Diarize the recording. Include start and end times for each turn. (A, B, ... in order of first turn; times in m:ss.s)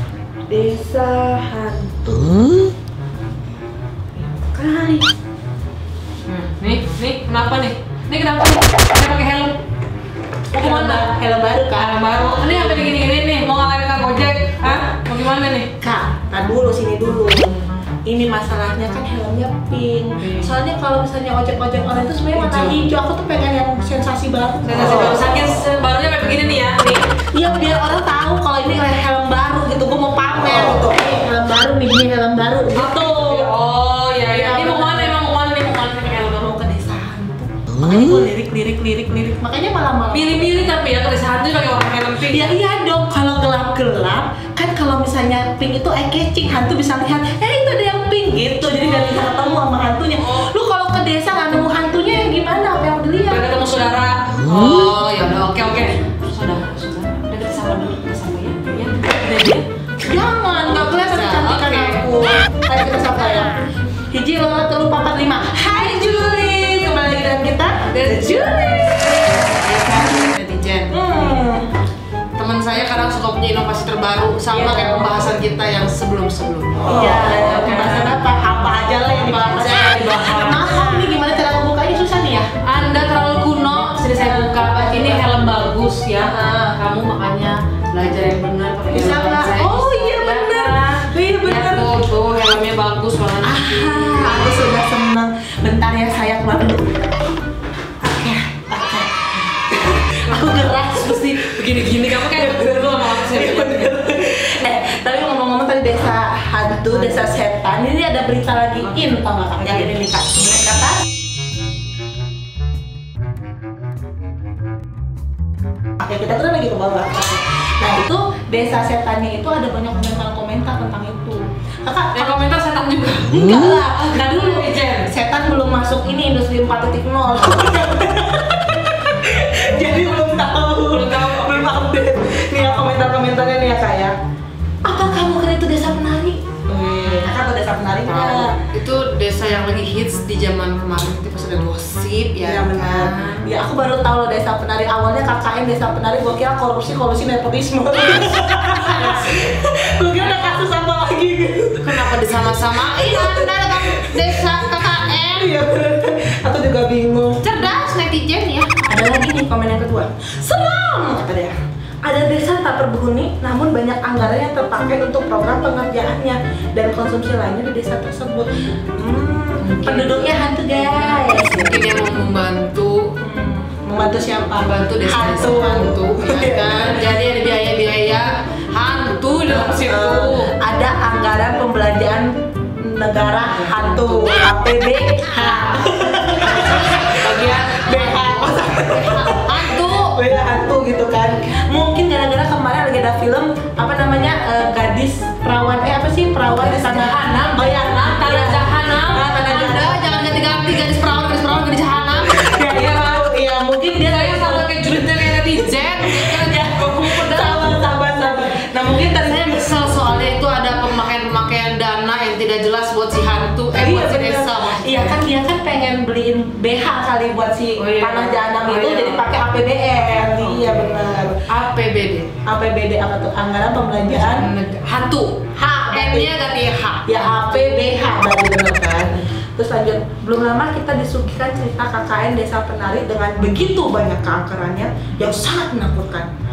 0:00.5-0:02.7 A
0:04.2-0:05.1 A
0:06.3-0:09.6 B
0:10.5-0:12.9 A
0:10.6-0:11.1 B
0:11.8-0:15.7 B
0:15.8-0:25.5 A
0:20.2-0:20.5 B
0:22.3-0:22.8 B
0:24.6-0:27.0 B
0:27.3-0:33.5 A
0:32.8-0:36.4 B
0:34.2-0:35.2 A
0:36.0-0:40.8 A
0:40.1-0:42.6 B
0:42.3-0:53.6 A
0:50.2-0:50.5 B
0:53.3-0:59.6 B
1:00.0-1:03.6 A
1:00.6-1:02.1 B
1:04.1-1:08.8 A
1:07.9-1:11.5 B
1:10.9-1:11.7 A
1:12.4-1:18.2 B
1:14.5-1:15.3 A
1:16.8-1:22.5 A
1:19.2-1:20.7 B
1:22.6-1:34.3 B
1:24.1-1:25.4 A
1:26.2-1:26.8 A
1:28.9-1:32.0 A
1:33.4-1:37.1 A
1:38.0-1:51.0 A
1:40.2-1:43.9 B
1:49.6-1:49.9 B
1:56.0-2:02.5 A
2:02.1-2:05.1 B
2:03.3-2:14.2 A
2:10.9-2:11.7 B
2:14.8-2:18.6 A
2:18.0-2:23.5 B
2:22.4-2:37.5 A
2:28.8-2:29.4 B
2:30.2-2:30.6 B
2:31.8-2:35.5 B
2:37.4-2:38.9 B
2:38.8-2:51.9 A
2:49.6-2:53.1 B
2:53.2-2:57.1 A
2:54.6-3:00.6 B
2:59.5-3:20.2 A
3:03.5-3:04.3 B
3:07.2-3:10.2 B
3:16.6-3:23.3 B
3:22.2-3:29.8 A
3:24.0-3:35.2 B
3:33.7-3:41.4 A
3:37.8-3:39.3 B
3:40.4-3:42.3 B
3:42.4-3:44.5 A
3:44.0-3:47.8 B
3:45.6-3:46.3 A
3:47.1-3:56.3 A